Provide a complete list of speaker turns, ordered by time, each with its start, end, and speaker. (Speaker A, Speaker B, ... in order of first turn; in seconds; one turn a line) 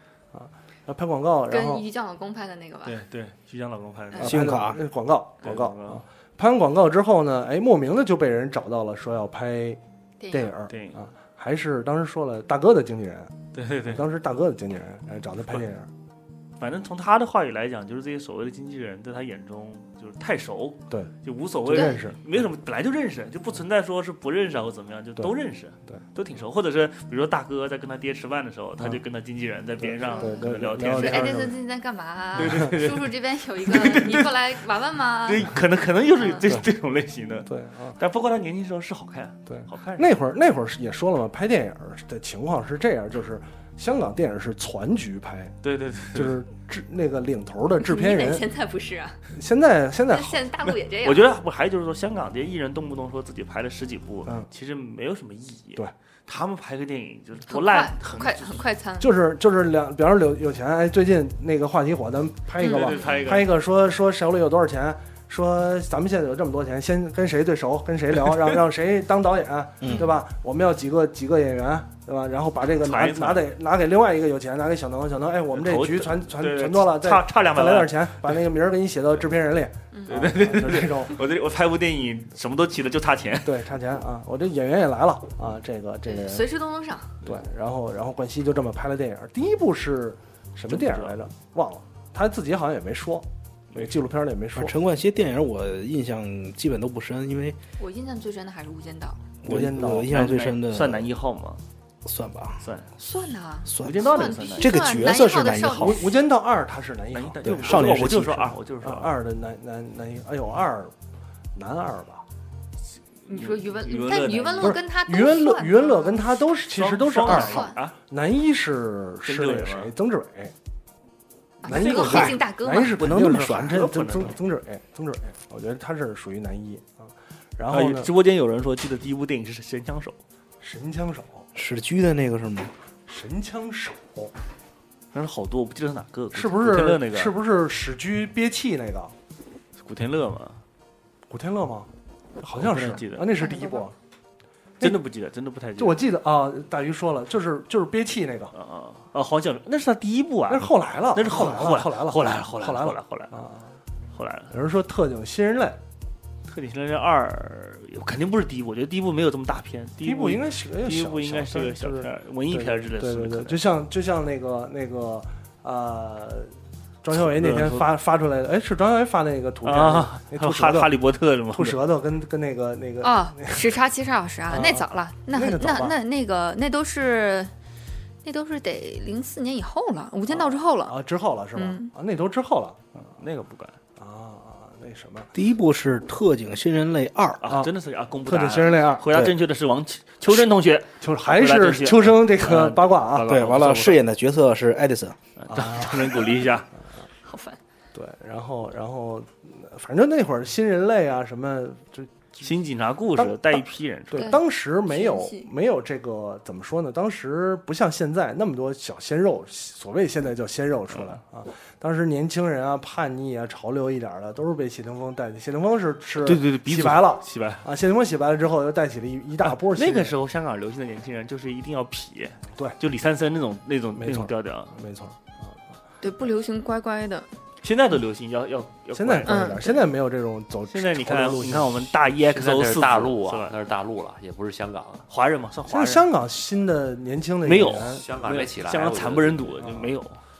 Speaker A: 0.3-1.8
Speaker B: 1.5-3.0
Speaker C: 2.8-4.6
Speaker A: 4.2-9.8
Speaker D: 4.2-4.8
Speaker C: 5.4-6.0
Speaker B: 10.2-10.5
Speaker A: 10.3-13.3
Speaker C: 10.7-11.0
Speaker C: 13.5-14.1
Speaker A: 13.8-15.9
Speaker C: 16.6-31.4
Speaker A: 20.9-22.2
Speaker A: 29.8-31.5
Speaker B: 30.0-35.5
Speaker C: 32.4-34.4
Speaker A: 32.4-32.7
Speaker C: 35.2-40.1
Speaker B: 36.2-36.4
Speaker A: 37.5-38.0
Speaker A: 39.5-45.6
Speaker C: 45.6-46.4
Speaker A: 46.1-48.5
Speaker B: 47.8-49.2
Speaker A: 49.3-50.5
Speaker B: 50.1-51.2
Speaker C: 51.0-58.6
Speaker B: 57.5-59.1
Speaker A: 59.0-81.2
Speaker B: 62.6-63.2
Speaker C: 62.6-63.5
Speaker C: 72.8-73.5
Speaker C: 75.5-78.3
Speaker C: 80.1-83.6
Speaker A: 83.4-86.5
Speaker B: 86.0-87.1
Speaker A: 87.2-94.8
Speaker C: 90.7-91.2
Speaker D: 94.5-97.6
Speaker B: 97.8-99.2
Speaker D: 99.4-101.1
Speaker A: 99.4-100.1
Speaker C: 100.1-101.6
Speaker D: 102.0-102.6
Speaker C: 102.6-102.9
Speaker B: 103.0-106.1
Speaker D: 103.7-106.0
Speaker C: 103.8-104.8
Speaker A: 105.8-108.3
Speaker C: 107.1-109.1
Speaker D: 107.4-108.5
Speaker A: 108.8-110.9
Speaker A: 111.5-112.2
Speaker C: 113.3-114.8
Speaker B: 113.3-116.4
Speaker A: 114.6-120.5
Speaker C: 116.7-117.9
Speaker B: 117.2-117.7
Speaker C: 119.2-119.9
Speaker B: 121.6-123.0
Speaker A: 121.6-128.1
Speaker C: 121.7-122.3
Speaker D: 123.0-123.8
Speaker C: 123.7-124.4
Speaker C: 127.7-130.2
Speaker A: 130.6-131.5
Speaker D: 131.5-132.7
Speaker A: 133.1-134.3
Speaker C: 135.1-137.4
Speaker A: 136.3-139.1
Speaker C: 139.8-140.6
Speaker A: 141.3-143.9
Speaker C: 142.5-143.4
Speaker B: 143.4-143.8
Speaker C: 144.8-146.0
Speaker A: 145.8-148.5
Speaker C: 148.5-153.4
Speaker A: 150.5-153.8
Speaker C: 154.1-154.5
Speaker A: 154.5-155.8
Speaker C: 156.5-163.6
Speaker A: 160.0-170.9
Speaker C: 167.1-167.9
Speaker C: 169.6-171.8
Speaker A: 171.5-173.8
Speaker B: 173.0-177.5
Speaker A: 174.5-176.0
Speaker B: 178.2-180.9
Speaker A: 180.3-182.8
Speaker B: 181.6-181.9
Speaker C: 182.9-183.8
Speaker A: 184.0-185.3
Speaker D: 185.3-187.4
Speaker C: 187.4-194.0
Speaker A: 187.4-187.7
Speaker A: 188.2-189.3
Speaker A: 191.0-193.4
Speaker D: 193.2-195.2
Speaker C: 195.4-196.7
Speaker A: 195.5-196.4
Speaker B: 197.2-197.6
Speaker A: 197.9-202.5
Speaker C: 202.4-204.3
Speaker A: 203.2-220.2
Speaker B: 204.1-205.5
Speaker C: 216.2-217.6
Speaker C: 219.4-224.8
Speaker A: 223.9-225.6
Speaker B: 226.0-227.3
Speaker C: 227.6-229.6
Speaker A: 228.9-231.9
Speaker B: 229.2-229.8
Speaker C: 230.7-233.6
Speaker E: 232.2-235.1
Speaker C: 235.1-236.1
Speaker A: 235.7-238.1
Speaker C: 237.4-240.2
Speaker E: 237.9-239.6
Speaker A: 239.6-239.9